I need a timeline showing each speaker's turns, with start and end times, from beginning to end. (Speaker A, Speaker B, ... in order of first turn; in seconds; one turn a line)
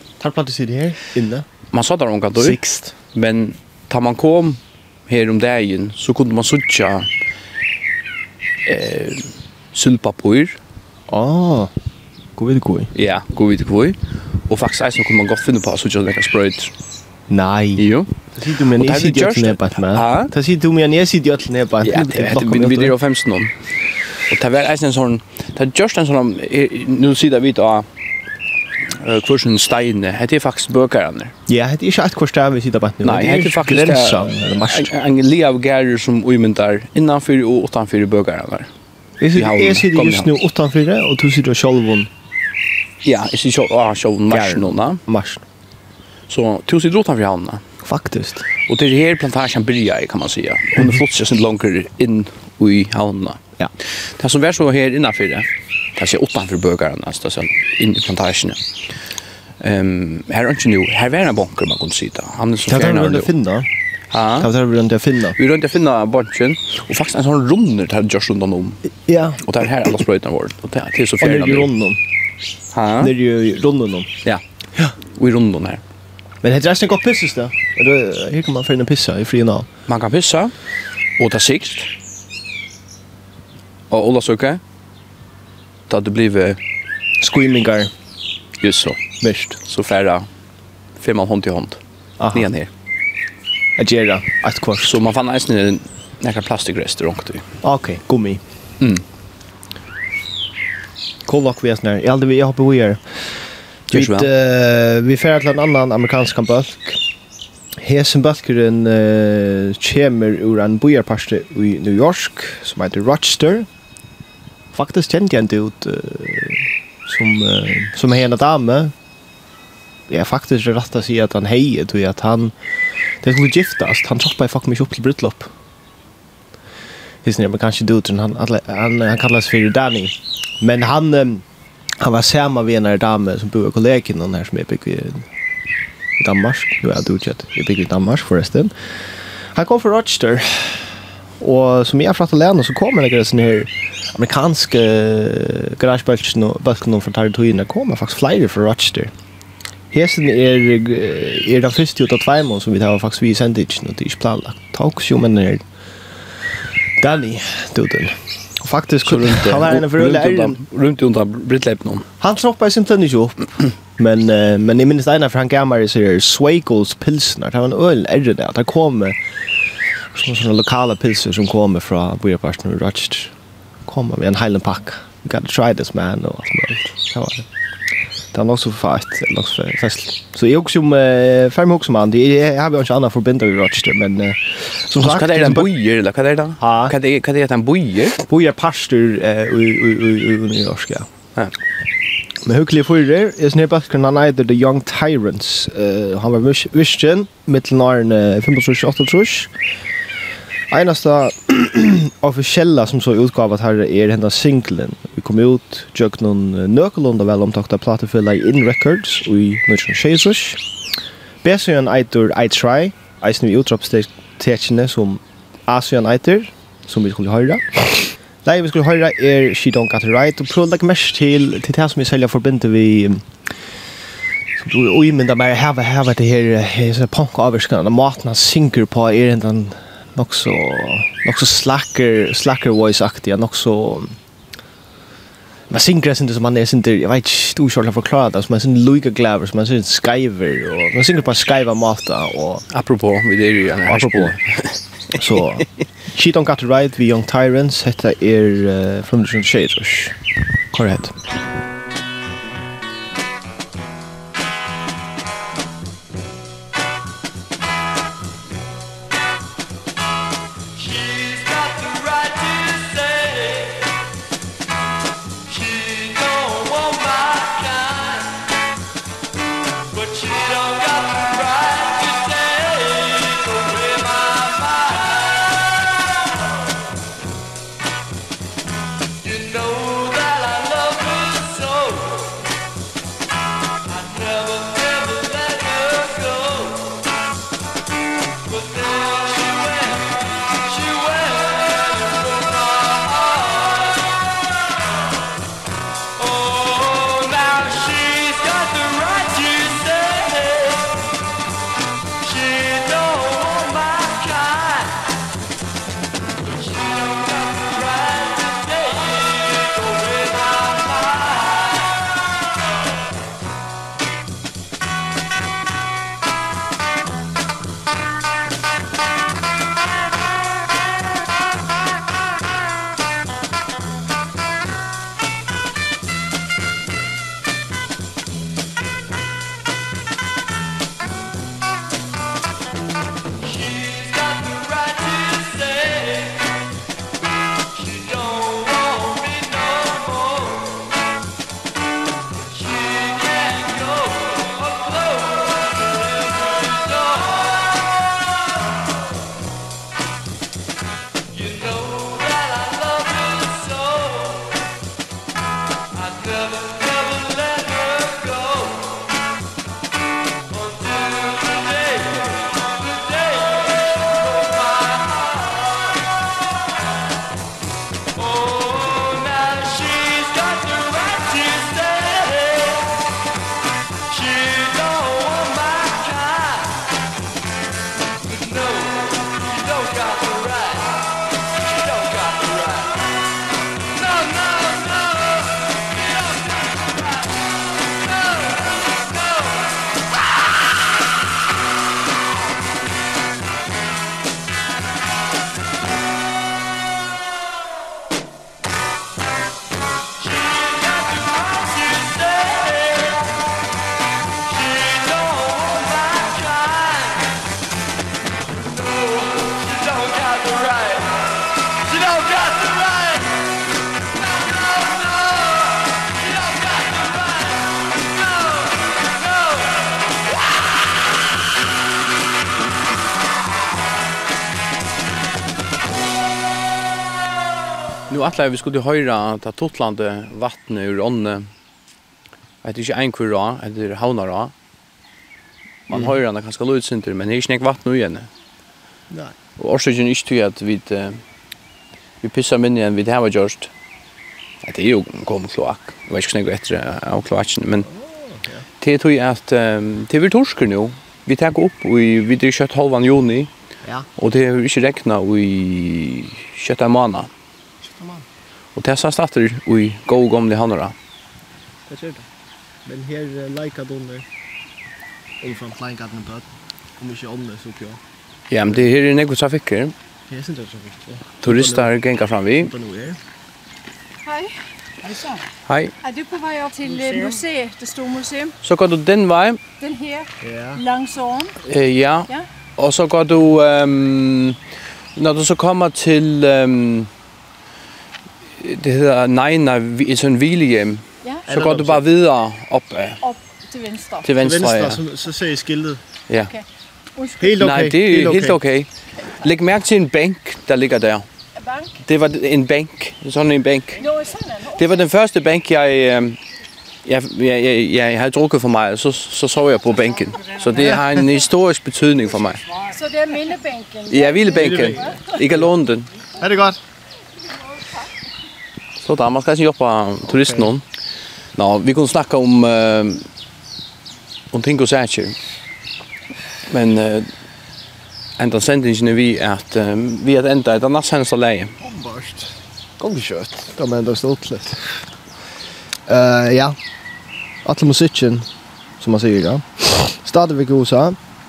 Speaker A: 0.2-1.5
Speaker B: 1.7-2.6
Speaker A: 2.4-2.9
Speaker B: 3.1-7.1
Speaker B: 8.7-10.6
Speaker A: 11.1-11.7
Speaker A: 12.3-12.9
Speaker B: 12.9-16.7
Speaker A: 17.3-22.9
Speaker B: 17.8-18.1
Speaker B: 18.8-20.3
Speaker B: 21.8-23.6
Speaker B: 24.3-27.9
Speaker B: 29.0-31.3
Speaker A: 31.5-34.9
Speaker B: 33.0-38.7
Speaker A: 39.2-42.1
Speaker B: 39.3-40.3
Speaker B: 43.0-45.0
Speaker A: 44.3-45.4
Speaker B: 46.3-47.6
Speaker A: 47.8-48.5
Speaker B: 48.7-58.6
Speaker B: 59.6-63.3
Speaker A: 62.6-63.7
Speaker B: 64.1-64.5
Speaker A: 64.4-65.4
Speaker B: 65.4-68.8
Speaker A: 69.1-69.4
Speaker B: 69.4-71.7
Speaker A: 71.2-72.0
Speaker B: 72.7-73.1
Speaker A: 73.0-74.1
Speaker B: 75.0-75.8
Speaker A: 76.4-79.7
Speaker B: 79.9-80.5
Speaker B: 81.2-81.9
Speaker B: 83.9-84.6
Speaker B: 85.9-86.6
Speaker A: 87.2-87.9
Speaker B: 88.6-89.1
Speaker A: 89.2-89.6
Speaker B: 89.6-90.3
Speaker B: 91.0-91.8
Speaker A: 92.2-92.5
Speaker B: 92.3-92.7
Speaker A: 93.8-95.0
Speaker B: 94.8-97.5
Speaker A: 97.6-98.4
Speaker A: 101.3-103.3
Speaker B: 103.9-104.3
Speaker A: 103.9-107.0
Speaker A: 107.8-113.7
Speaker A: 114.7-118.9
Speaker A: 120.1-122.5
Speaker A: 123.2-125.5
Speaker A: 127.2-131.4
Speaker A: 132.0-135.3
Speaker A: 136.2-138.7
Speaker A: 139.5-149.1
Speaker A: 149.9-155.6
Speaker A: 157.0-160.6
Speaker B: 159.0-162.1
Speaker A: 162.2-169.2
Speaker A: 170.1-173.3
Speaker A: 173.8-177.5
Speaker A: 178.3-185.7
Speaker B: 185.0-188.2
Speaker A: 186.6-186.9
Speaker A: 188.2-191.1
Speaker A: 192.4-199.5
Speaker A: 200.7-210.6
Speaker A: 211.4-223.3
Speaker A: 224.6-234.2
Speaker A: 235.7-242.6
Speaker B: 242.7-245.6
Speaker A: 243.9-244.4
Speaker A: 245.2-250.2
Speaker A: 250.7-251.2
Speaker B: 261.9-263.6
Speaker B: 266.2-267.2
Speaker B: 279.6-281.7
Speaker B: 285.9-286.4
Speaker B: 289.5-289.9
Speaker B: 291.0-291.3
Speaker B: 296.6-300.8
Speaker B: 302.9-304.1
Speaker B: 335.1-336.1
Speaker B: 338.3-338.7
Speaker B: 339.3-340.0
Speaker B: 351.5-354.1
Speaker B: 356.4-358.7
Speaker B: 368.9-372.6
Speaker B: 375.0-376.2
Speaker B: 402.0-402.7
Speaker B: 428.1-431.5
Speaker B: 432.6-434.5
Speaker B: 435.9-438.3
Speaker A: 435.9-436.2
Speaker B: 439.6-441.2
Speaker B: 442.2-443.7
Speaker B: 444.6-447.9
Speaker A: 447.9-448.6
Speaker B: 448.8-453.5
Speaker B: 454.2-457.3
Speaker A: 457.8-458.2
Speaker B: 458.8-460.9
Speaker A: 461.9-462.3
Speaker A: 462.9-464.3
Speaker A: 465.4-468.0
Speaker B: 468.5-469.9
Speaker A: 470.3-471.9
Speaker B: 471.4-472.7
Speaker A: 472.6-473.2
Speaker C: 474.3-474.5
Speaker C: 475.1-475.4
Speaker B: 475.7-475.9
Speaker C: 476.0-478.5
Speaker A: 476.9-477.4
Speaker B: 478.6-479.6
Speaker C: 479.8-481.5
Speaker A: 480.4-480.8
Speaker B: 481.6-484.6
Speaker B: 485.1-487.1
Speaker B: 488.6-493.2
Speaker A: 491.5-492.1
Speaker C: 493.2-494.3
Speaker B: 494.2-495.0
Speaker A: 494.4-496.0
Speaker C: 497.2-497.5
Speaker A: 497.4-498.6
Speaker B: 497.6-501.3
Speaker C: 501.6-501.9
Speaker B: 502.0-504.0
Speaker C: 504.0-504.7
Speaker B: 504.7-506.4
Speaker B: 507.1-512.6
Speaker C: 512.9-515.2
Speaker B: 514.1-516.1
Speaker A: 514.6-515.7
Speaker A: 516.4-516.8
Speaker B: 519.0-520.8
Speaker A: 520.3-520.7
Speaker B: 521.6-523.2
Speaker B: 524.5-525.4
Speaker B: 526.7-527.3
Speaker B: 528.4-531.8
Speaker A: 531.8-535.0
Speaker A: 536.1-536.8
Speaker A: 537.6-538.5
Speaker A: 539.0-541.2